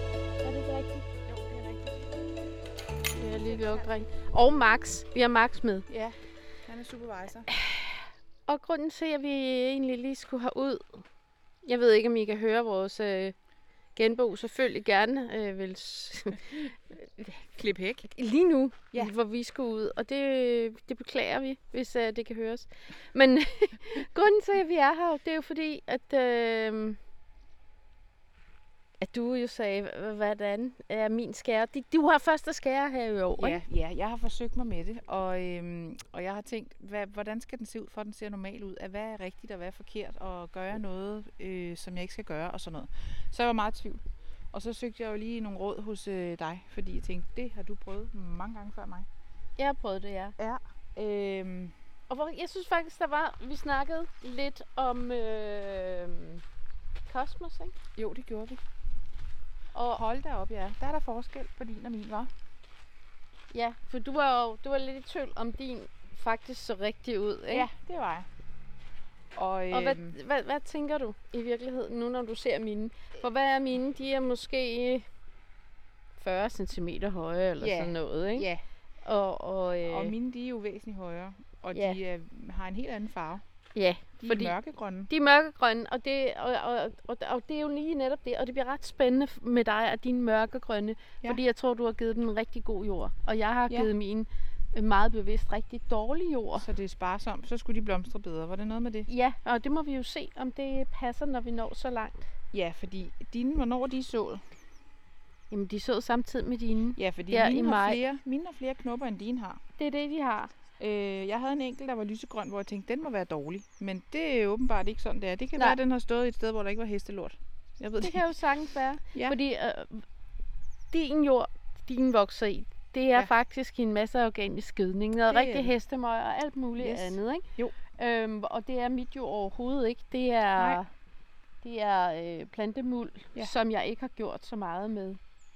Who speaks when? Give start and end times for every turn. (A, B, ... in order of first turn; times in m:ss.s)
0:00.4-0:01.1 A
0:01.2-0:02.1 B
0:03.1-0:05.9 A
0:03.3-0:03.9 B
0:05.9-0:06.2 B
0:06.7-0:07.5 B
0:08.5-0:11.0 A
0:11.6-0:13.4 A
0:14.0-0:17.4 A
0:17.4-0:18.1 B
0:18.1-0:27.0 A
0:29.0-0:33.6 A
0:33.4-0:49.1 B
0:49.6-0:50.4 A
0:50.4-0:51.8 B
0:52.1-0:56.4 A
0:57.1-0:57.8 A
0:58.0-0:58.6 B
0:59.8-1:00.0 A
0:59.9-1:02.3 B
1:03.5-1:07.7 A
1:07.5-1:08.3 B
1:09.3-1:10.2 B
1:09.7-1:15.0 A
1:16.2-1:18.5 A
1:17.6-1:18.6 B
1:19.0-1:20.1 A
1:19.9-1:23.4 B
1:21.7-1:22.0 A
1:23.8-1:24.6 A
1:24.2-1:25.1 B
1:25.1-1:36.7 A
1:36.6-1:39.1 B
1:39.1-1:42.3 A
1:42.5-1:44.4 B
1:45.5-1:48.0 A
1:47.0-1:49.6 B
1:49.8-1:50.5 A
1:50.8-1:58.2 B
1:58.0-2:00.0 A
2:00.9-2:10.9 A
2:05.3-2:05.7 B
2:06.8-2:07.8 B
2:11.6-2:15.2 A